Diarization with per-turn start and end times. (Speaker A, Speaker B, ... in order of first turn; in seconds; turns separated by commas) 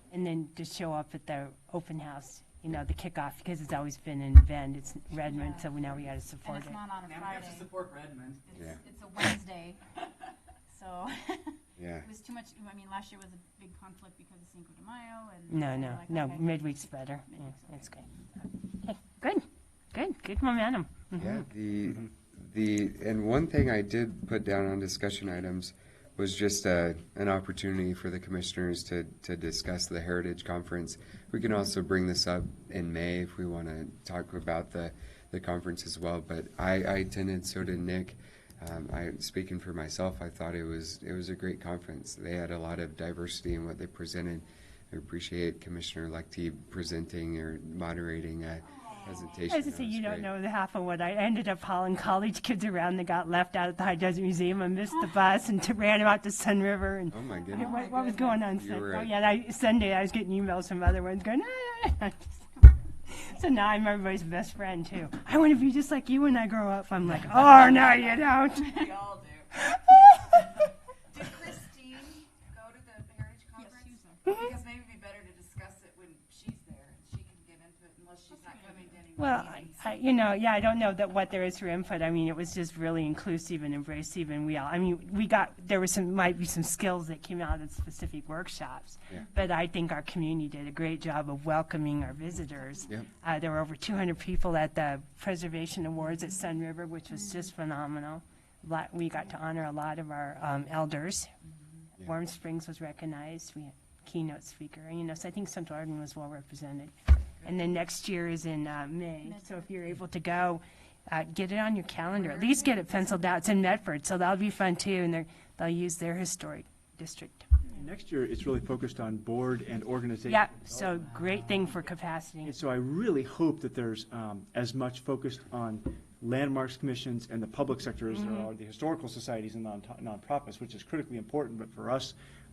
Speaker A: 0.1-6.8, Speaker B: 5.2-5.8, Speaker B: 6.4-7.7, Speaker C: 7.0-8.4, Speaker B: 8.5-9.9, Speaker D: 8.5-8.8, Speaker B: 10.7-18.1, Speaker D: 11.8-12.1, Speaker A: 15.5-18.1, Speaker A: 18.8-21.5, Speaker D: 21.2-50.3, Speaker C: 48.6-49.4, Speaker A: 49.5-69.0, Speaker D: 57.1-59.1, Speaker C: 57.5-58.4, Speaker C: 67.6-80.0, Speaker A: 69.5-70.0, Speaker B: 73.6-74.5, Speaker B: 78.3-79.0, Speaker A: 79.2-101.3, Speaker C: 101.5-101.9, Speaker A: 102.0-117.5, Speaker B: 109.2-110.0, Speaker B: 112.4-113.5, Speaker E: 117.7-121.4, Speaker A: 120.2-122.6, Speaker E: 122.4-132.1, Speaker A: 128.1-128.5